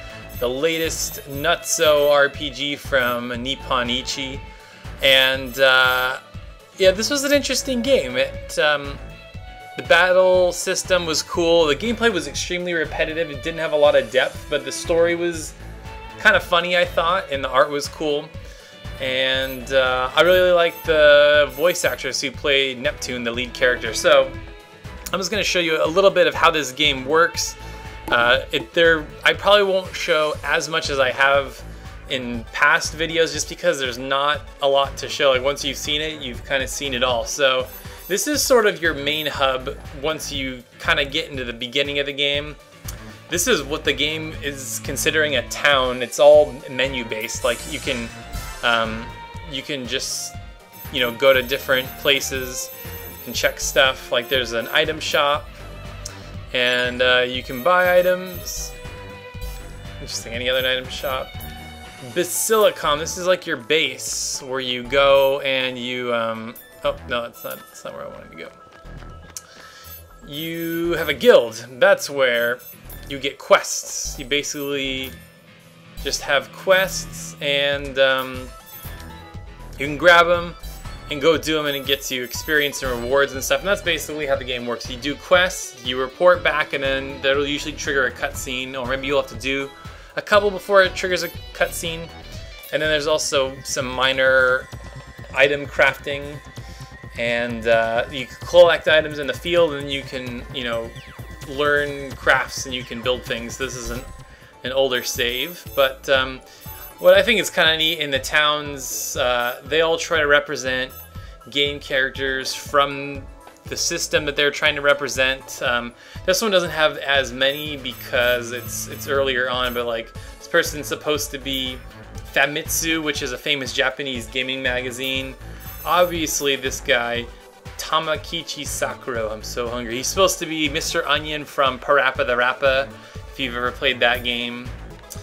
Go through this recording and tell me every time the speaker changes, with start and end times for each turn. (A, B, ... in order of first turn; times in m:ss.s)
0:00.4-0:04.4 A
0:05.0-0:06.2 A
0:06.8-0:09.0 A
0:09.8-0:15.6 A
0:16.2-0:18.3 A
0:19.0-0:24.4 A
0:25.1-0:42.6 A
0:43.3-0:50.4 A
0:50.9-0:52.7 A
0:53.2-0:55.6 A
0:56.5-0:58.8 A
1:00.0-1:01.4 A
1:02.0-1:08.5 A
1:10.2-1:15.2 A
1:16.0-1:18.5 A
1:19.8-1:20.6 A
1:21.1-1:32.1 A
1:32.7-1:34.7 A
1:35.3-1:36.4 A
1:37.2-1:44.1 A
1:44.6-1:46.4 A
1:47.0-1:51.0 A
1:51.5-2:14.8 A